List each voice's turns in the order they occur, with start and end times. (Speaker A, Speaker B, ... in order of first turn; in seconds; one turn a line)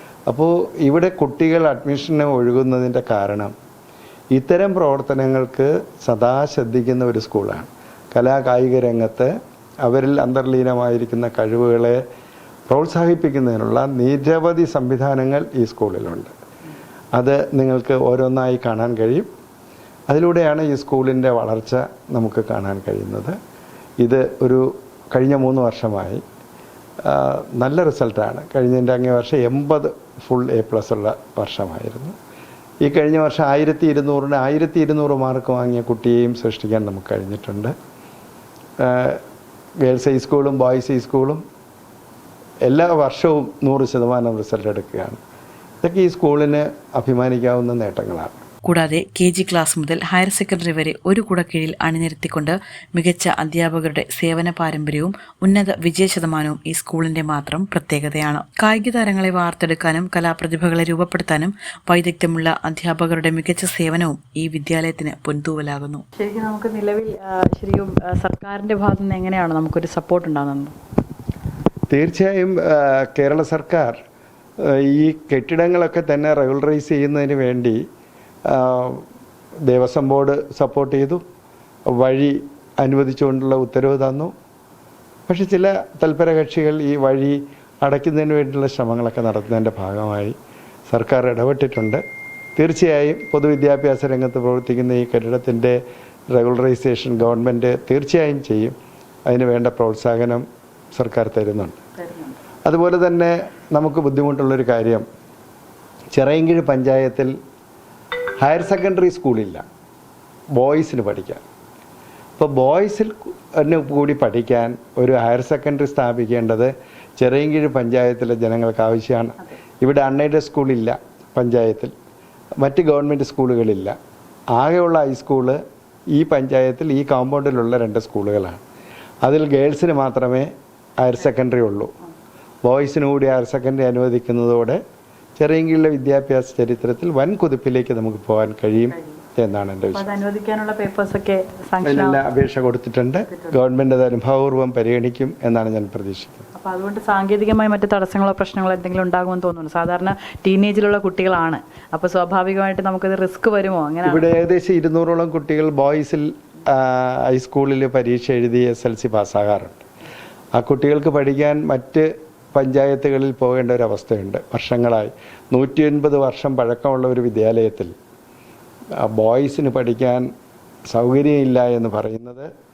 Speaker A: 0.3-3.5
Speaker A: 4.3-9.3
Speaker A: 9.8-12.0
Speaker A: 12.7-16.3
Speaker A: 17.1-19.3
Speaker A: 20.1-23.4
Speaker A: 24.0-26.2
Speaker A: 27.1-32.1
Speaker A: 32.8-37.7
Speaker A: 38.8-39.2
Speaker A: 39.8-41.4
Speaker A: 42.7-45.2
Speaker A: 45.8-48.4
Speaker B: 48.6-66.0
Speaker C: 66.2-70.8
Speaker A: 71.9-74.0
Speaker A: 74.6-77.8
Speaker A: 78.5-79.0
Speaker A: 79.7-81.2
Speaker A: 81.9-84.3
Speaker A: 85.3-90.3
Speaker A: 90.9-92.0
Speaker A: 92.6-95.8
Speaker A: 96.3-98.8
Speaker A: 99.3-101.8
Speaker C: 102.0-102.4
Speaker A: 102.6-105.0
Speaker A: 106.1-107.3
Speaker A: 108.4-109.6
Speaker A: 110.6-111.4
Speaker A: 112.4-121.9
Speaker A: 122.6-124.0
Speaker A: 124.5-125.6
Speaker A: 126.1-128.6
Speaker A: 129.2-131.9
Speaker A: 132.6-134.8
Speaker A: 135.4-140.1
Speaker C: 139.9-142.2
Speaker A: 141.8-146.5
Speaker C: 143.3-143.6
Speaker C: 146.6-154.3
Speaker A: 154.0-159.8
Speaker A: 160.6-167.9
Speaker A: 169.0-170.2
Speaker A: 170.9-172.5